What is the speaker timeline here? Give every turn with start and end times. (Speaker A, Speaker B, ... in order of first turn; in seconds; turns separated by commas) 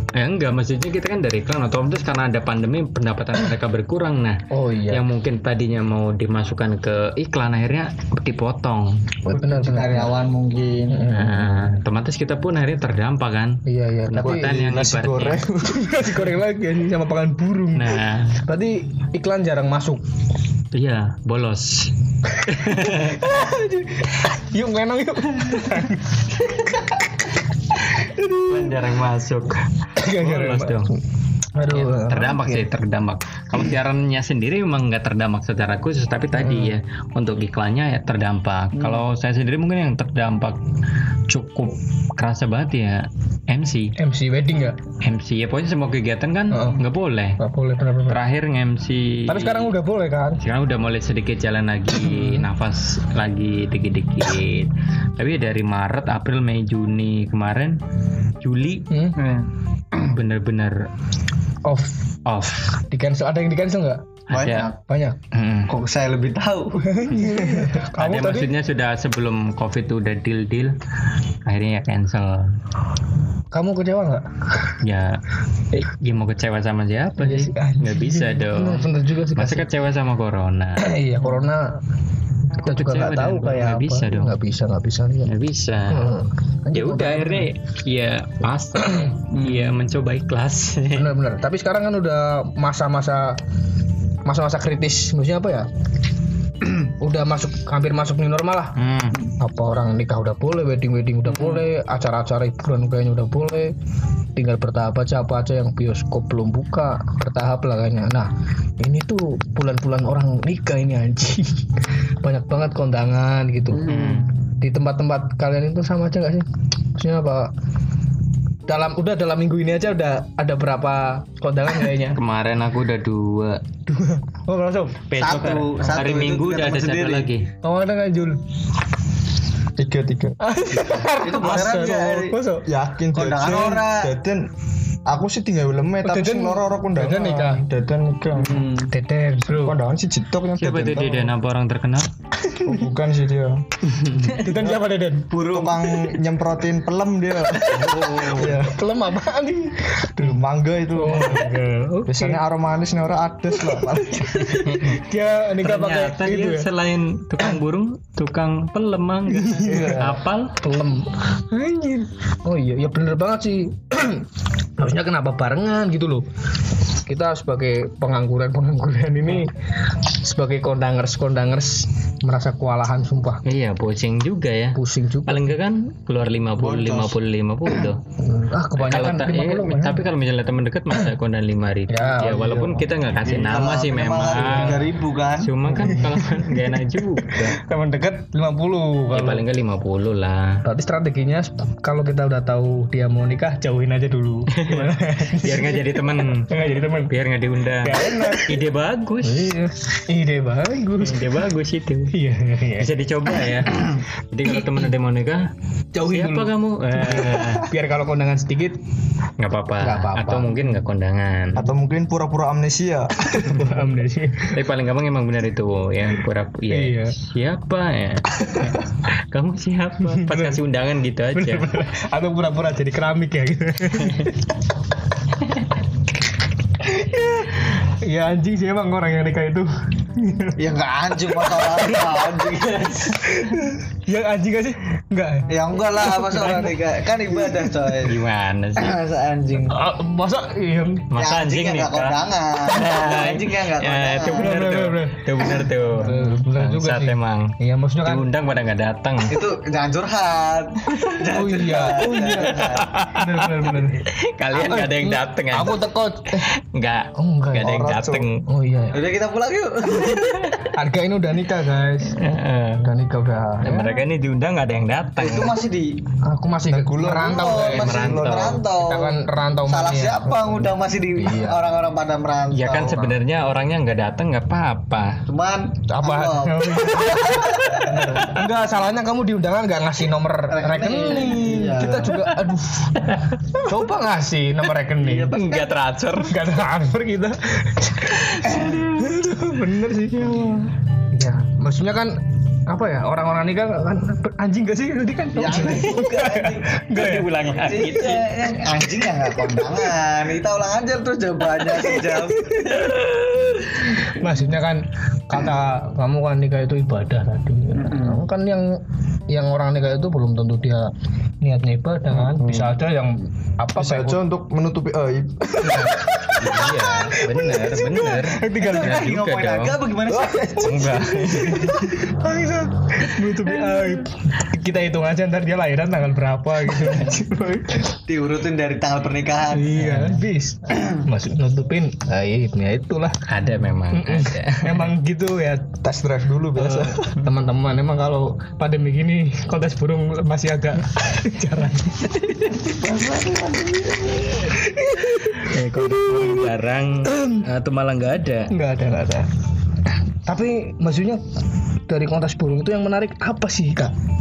Speaker A: 0.1-9.0, Speaker B: 4.5-5.1, Speaker B: 9.2-10.1, Speaker C: 9.3-11.1, Speaker B: 10.9-11.8, Speaker A: 11.1-15.4, Speaker B: 13.7-14.5, Speaker D: 14.2-16.2, Speaker B: 15.7-20.0, Speaker A: 17.7-18.4, Speaker A: 20.7-21.9, Speaker A: 22.4-23.2, Speaker B: 22.8-26.4, Speaker A: 28.3-30.9, Speaker B: 30.0-31.0, Speaker B: 31.5-32.6, Speaker A: 31.7-40.6, Speaker B: 36.3-36.8, Speaker C: 38.7-39.0, Speaker A: 41.3-43.9, Speaker B: 44.0-44.8, Speaker A: 45.0-47.4, Speaker B: 46.5-46.8, Speaker B: 47.4-48.2, Speaker A: 48.1-49.7, Speaker B: 49.3-50.4, Speaker A: 50.4-57.8, Speaker B: 51.9-52.5, Speaker A: 58.4-58.9, Speaker B: 58.9-59.2, Speaker C: 59.2-59.4, Speaker A: 60.0-60.8, Speaker B: 61.6-62.0, Speaker A: 62.2-62.8, Speaker B: 62.9-64.2, Speaker A: 64.3-64.7, Speaker C: 64.3-64.8, Speaker B: 64.9-65.2, Speaker A: 65.3-65.7, Speaker C: 65.7-67.5, Speaker B: 66.8-68.5, Speaker A: 67.9-70.8, Speaker A: 71.4-72.5, Speaker B: 73.5-74.2, Speaker A: 74.8-75.2, Speaker A: 75.7-80.9, Speaker B: 77.2-79.7, Speaker B: 80.8-81.7, Speaker B: 82.6-85.3, Speaker A: 82.6-84.3, Speaker A: 85.2-86.2, Speaker B: 85.9-87.5, Speaker A: 86.7-91.1, Speaker B: 88.8-89.1, Speaker C: 89.3-89.7, Speaker B: 90.9-93.4, Speaker B: 94.2-95.7, Speaker B: 96.8-98.8, Speaker A: 98.8-99.2, Speaker B: 99.4-103.7, Speaker C: 101.3-101.6, Speaker B: 104.3-108.3, Speaker B: 108.8-111.6, Speaker B: 112.2-113.9, Speaker C: 113.7-114.2, Speaker A: 113.9-114.3, Speaker B: 114.6-117.5, Speaker B: 118.7-122.2, Speaker A: 122.1-123.6, Speaker B: 123.9-125.0, Speaker A: 125.1-127.5, Speaker C: 125.2-127.3, Speaker B: 127.6-128.4, Speaker D: 129.8-130.4, Speaker B: 130.4-132.7, Speaker C: 131.1-132.4, Speaker D: 132.7-134.4, Speaker C: 133.1-134.1, Speaker D: 135.1-138.7, Speaker B: 136.0-137.6, Speaker C: 138.3-138.9, Speaker B: 138.9-139.8, Speaker D: 139.5-141.3, Speaker A: 140.6-142.1, Speaker B: 142.5-142.8, Speaker D: 142.6-143.7, Speaker A: 144.0-144.3, Speaker B: 144.3-145.3, Speaker C: 145.3-146.1, Speaker D: 145.4-148.8, Speaker A: 147.7-148.6, Speaker B: 148.3-150.3, Speaker D: 150.2-151.5, Speaker B: 150.9-152.4, Speaker D: 152.1-154.7, Speaker B: 153.6-156.7, Speaker A: 154.4-155.0, Speaker A: 155.6-160.6, Speaker B: 159.3-166.2, Speaker B: 167.1-169.5, Speaker B: 170.0-173.4, Speaker A: 173.4-178.0, Speaker B: 174.7-175.6, Speaker C: 176.6-177.2, Speaker B: 178.2-180.0, Speaker A: 178.8-187.6, Speaker B: 181.9-182.8, Speaker C: 183.2-185.5, Speaker B: 184.3-184.8, Speaker B: 185.7-189.4, Speaker A: 189.1-190.6, Speaker B: 190.6-197.2, Speaker A: 194.5-196.5, Speaker A: 197.1-199.6, Speaker B: 197.8-198.6, Speaker B: 199.2-201.4, Speaker A: 201.0-202.1, Speaker B: 202.1-202.9, Speaker A: 202.8-205.5, Speaker B: 204.5-204.8, Speaker B: 205.9-208.8, Speaker A: 206.0-207.7, Speaker A: 209.4-211.7, Speaker B: 209.8-210.8, Speaker D: 211.6-213.9, Speaker B: 213.3-214.6, Speaker A: 214.5-221.7, Speaker B: 216.7-217.1, Speaker B: 220.0-220.6, Speaker B: 221.3-224.5, Speaker B: 227.0-230.6, Speaker C: 230.6-233.2, Speaker B: 231.2-232.2, Speaker B: 233.2-237.7, Speaker C: 235.5-238.2, Speaker A: 238.0-238.9, Speaker C: 238.8-239.8, Speaker B: 239.7-241.1, Speaker A: 241.1-249.4, Speaker C: 241.2-244.5, Speaker B: 244.3-248.3, Speaker C: 249.3-252.9, Speaker B: 251.2-256.5, Speaker A: 252.3-255.8, Speaker A: 256.4-258.4, Speaker B: 257.1-257.9, Speaker D: 257.6-258.3, Speaker B: 258.4-259.0, Speaker C: 258.9-260.6, Speaker A: 260.1-260.7, Speaker B: 260.7-262.2, Speaker A: 262.1-262.9, Speaker B: 262.8-264.0, Speaker A: 263.6-265.6, Speaker C: 265.2-266.0, Speaker B: 266.2-271.6, Speaker D: 266.7-268.6, Speaker C: 267.1-273.2, Speaker A: 267.7-268.6, Speaker A: 272.5-275.2, Speaker C: 275.3-278.3, Speaker B: 275.9-285.4, Speaker C: 280.5-282.3, Speaker A: 283.0-283.3, Speaker C: 285.0-285.7, Speaker A: 285.3-286.4, Speaker B: 286.2-297.3, Speaker A: 288.3-288.8, Speaker C: 288.4-288.9, Speaker C: 295.3-296.8, Speaker A: 296.9-298.4, Speaker C: 297.4-304.3, Speaker B: 301.6-303.0, Speaker B: 304.1-310.9, Speaker C: 307.7-308.2, Speaker B: 311.4-314.2, Speaker D: 312.2-312.7, Speaker D: 313.8-316.0, Speaker B: 315.6-319.1, Speaker A: 315.6-319.8, Speaker C: 318.6-320.8, Speaker B: 320.1-327.9, Speaker A: 320.6-321.9, Speaker C: 328.1-329.9, Speaker B: 329.5-333.2, Speaker A: 329.8-330.2, Speaker C: 330.7-331.0, Speaker A: 333.3-334.9, Speaker B: 333.9-335.8, Speaker D: 335.8-337.1, Speaker B: 336.5-342.3, Speaker C: 342.6-344.5, Speaker B: 344.6-345.5, Speaker A: 345.3-348.5, Speaker B: 347.1-347.4, Speaker B: 348.5-349.3, Speaker B: 350.2-351.2, Speaker B: 351.9-353.9